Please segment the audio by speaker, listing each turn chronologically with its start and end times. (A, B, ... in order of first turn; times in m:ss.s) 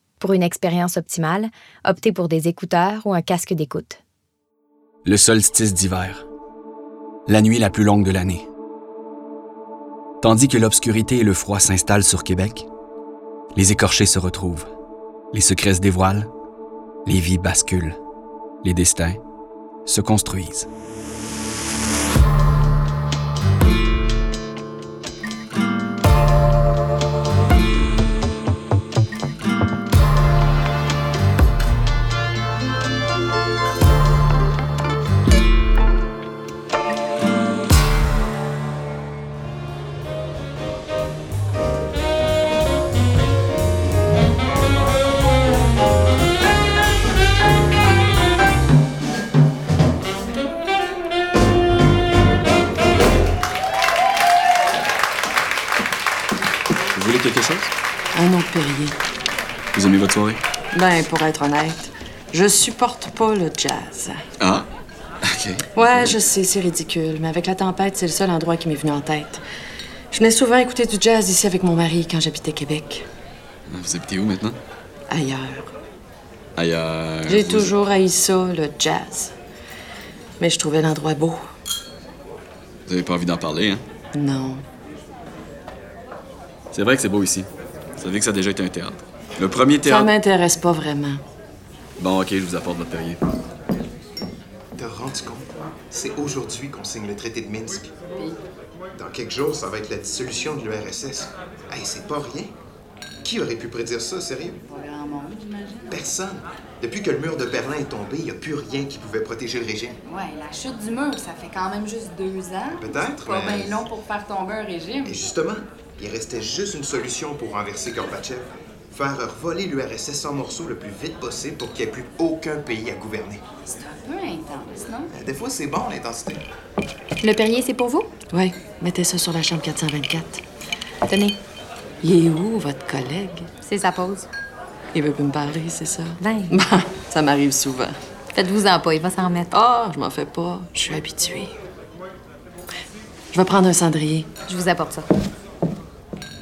0:00.2-0:04.0 A
0:05.0-0:06.3 B
0:07.3-0:08.5 B
0:10.2-0:12.7 B
0:13.5-0:14.7 B
0:15.3-0:16.3 B
0:17.0-0:18.0 B
0:18.6-0:19.2 B
0:19.9-0:20.7 B
0:57.0-0:57.7 C
0:58.1-0:59.0 D
0:59.7-1:00.4 C
1:00.7-1:04.2 D
1:04.4-1:04.7 C
1:05.2-1:06.1 C
1:05.8-1:09.4 D
1:10.1-1:13.1 D
1:13.7-1:14.6 C
1:15.1-1:15.8 D
1:16.6-1:17.7 C
1:17.3-1:19.4 D
1:20.4-1:21.4 D
1:22.9-1:23.8 C
1:24.1-1:24.6 D
1:26.7-1:30.1 C
1:29.8-1:31.2 D
1:32.0-1:33.2 C
1:34.8-1:38.0 E
1:39.0-1:42.6 E
1:43.2-1:44.6 E
1:44.6-1:46.0 F
1:45.9-1:50.0 E
1:50.0-1:55.2 F
1:52.8-1:53.9 E
1:55.0-2:03.5 E
2:03.6-2:05.1 F
2:05.1-2:06.4 E
2:07.2-2:08.1 A
2:08.3-2:10.4 D
2:11.1-2:11.4 A
2:12.0-2:13.5 D
2:13.6-2:14.3 A
2:14.9-2:18.0 D
2:16.2-2:16.5 A
2:18.4-2:19.5 A
2:19.5-2:21.6 D
2:23.3-2:24.3 D
2:24.5-2:25.1 A